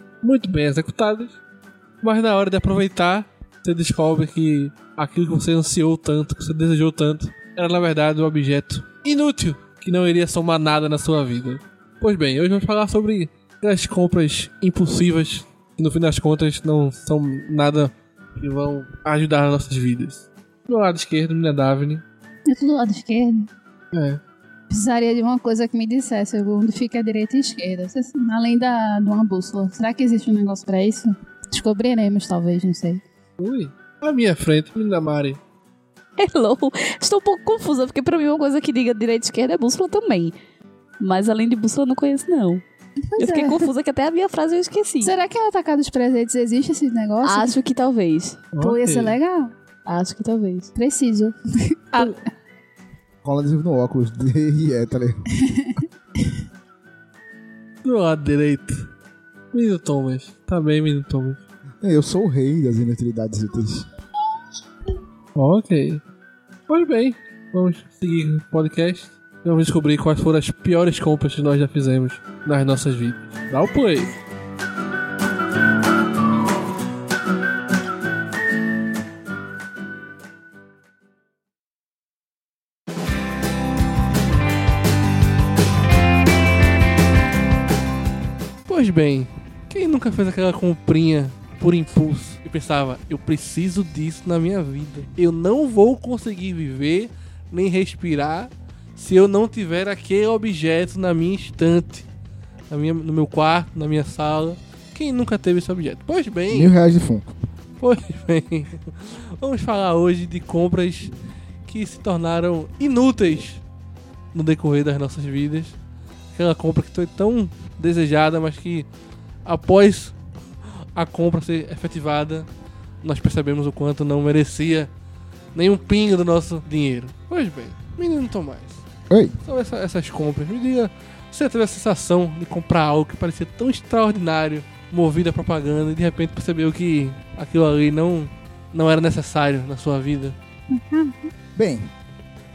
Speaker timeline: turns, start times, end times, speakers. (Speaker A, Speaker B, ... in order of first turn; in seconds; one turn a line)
Speaker A: 0.2-1.4
Speaker A: 2.0-22.0
Speaker B: 22.5-23.5
Speaker A: 23.9-24.2
Speaker B: 24.7-33.0
Speaker A: 33.4-35.4
Speaker C: 36.2-40.4
Speaker C: 41.0-42.6
Speaker B: 43.0-43.7
Speaker C: 43.2-45.1
Speaker B: 45.0-47.5
Speaker C: 47.2-48.5
Speaker A: 48.5-49.2
Speaker B: 48.6-49.5
Speaker C: 49.9-50.7
Speaker B: 50.8-52.2
Speaker D: 53.2-55.3
Speaker A: 57.8-58.9
Speaker A: 59.5-61.4
Speaker D: 61.8-63.9
Speaker A: 65.3-66.0
Speaker A: 66.7-74.1
Speaker A: 88.7-102.1
Speaker A: 102.7-106.7
Speaker D: 106.5-107.3
Speaker A: 107.8-111.2
Speaker A: 111.7-113.6
Speaker A: 114.3-115.8
Speaker A: 116.3-118.9
Speaker A: 119.5-122.5
Speaker A: 123.0-124.9
Speaker A: 125.5-128.8
Speaker D: 129.1-129.3
Speaker A: 129.4-140.4
Speaker B: 140.7-141.3
Speaker D: 141.6-141.9